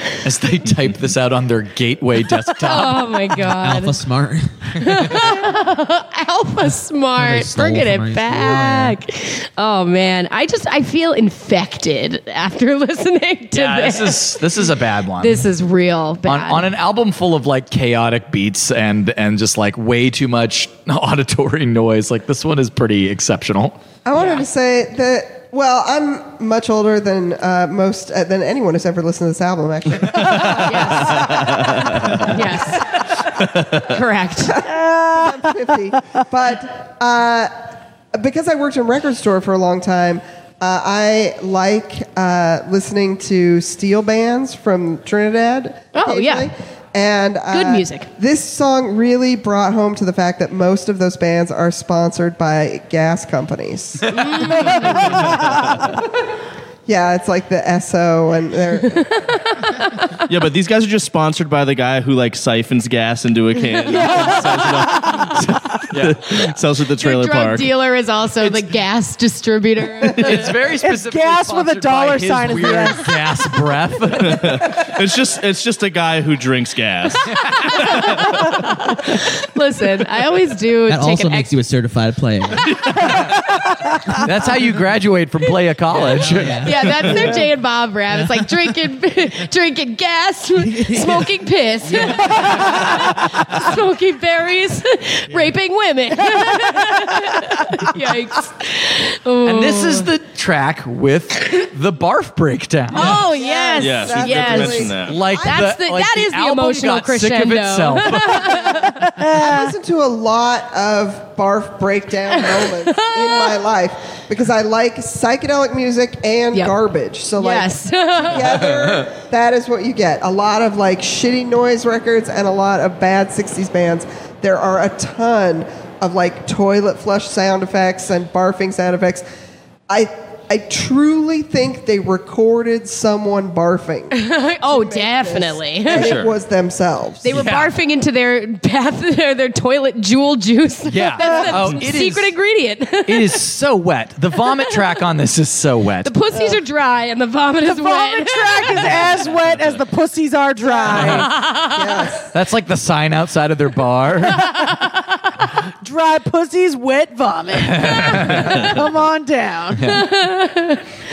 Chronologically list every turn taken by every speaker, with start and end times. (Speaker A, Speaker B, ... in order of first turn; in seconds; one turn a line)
Speaker A: 0.2-3.2
Speaker B: 2.6-4.0
Speaker C: 3.4-5.2
Speaker B: 4.8-16.7
Speaker C: 7.2-9.0
Speaker A: 13.5-15.5
Speaker A: 16.2-23.8
Speaker D: 24.1-32.2
Speaker B: 30.6-31.4
Speaker E: 31.3-32.3
Speaker B: 32.2-33.0
Speaker B: 33.8-34.6
Speaker D: 34.5-37.5
Speaker F: 34.6-35.5
Speaker D: 38.1-56.0
Speaker B: 45.9-46.5
Speaker B: 47.5-48.1
Speaker B: 54.1-55.2
Speaker D: 56.9-59.2
Speaker B: 59.0-60.2
Speaker E: 60.3-67.7
Speaker F: 63.9-65.3
Speaker A: 65.9-66.2
Speaker B: 67.0-70.5
Speaker A: 70.2-74.7
Speaker F: 70.8-73.1
Speaker E: 74.2-78.6
Speaker A: 77.3-77.9
Speaker B: 79.0-81.6
Speaker C: 80.9-82.8
Speaker A: 84.1-86.8
Speaker C: 85.9-87.4
Speaker B: 86.6-100.1
Speaker C: 88.1-88.7
Speaker C: 90.6-91.3
Speaker A: 99.4-103.2
Speaker B: 102.9-109.0
Speaker D: 103.1-105.6
Speaker E: 103.8-105.2
Speaker A: 105.1-108.9
Speaker F: 109.2-109.7
Speaker D: 109.2-129.2
Speaker B: 112.3-113.6
Speaker B: 117.4-118.6
Speaker D: 129.9-137.4
Speaker B: 134.1-136.2
Speaker E: 135.9-136.3
Speaker B: 137.2-143.4
Speaker A: 137.3-137.7
Speaker A: 140.9-142.3
Speaker A: 143.1-146.1
Speaker B: 146.0-148.8
Speaker F: 147.6-151.3
Speaker D: 150.7-152.3
Speaker A: 150.9-151.2
Speaker B: 151.1-151.8
Speaker A: 152.3-154.6
Speaker F: 155.8-159.9
Speaker A: 157.6-158.8
Speaker A: 159.8-160.1
Speaker B: 159.8-160.8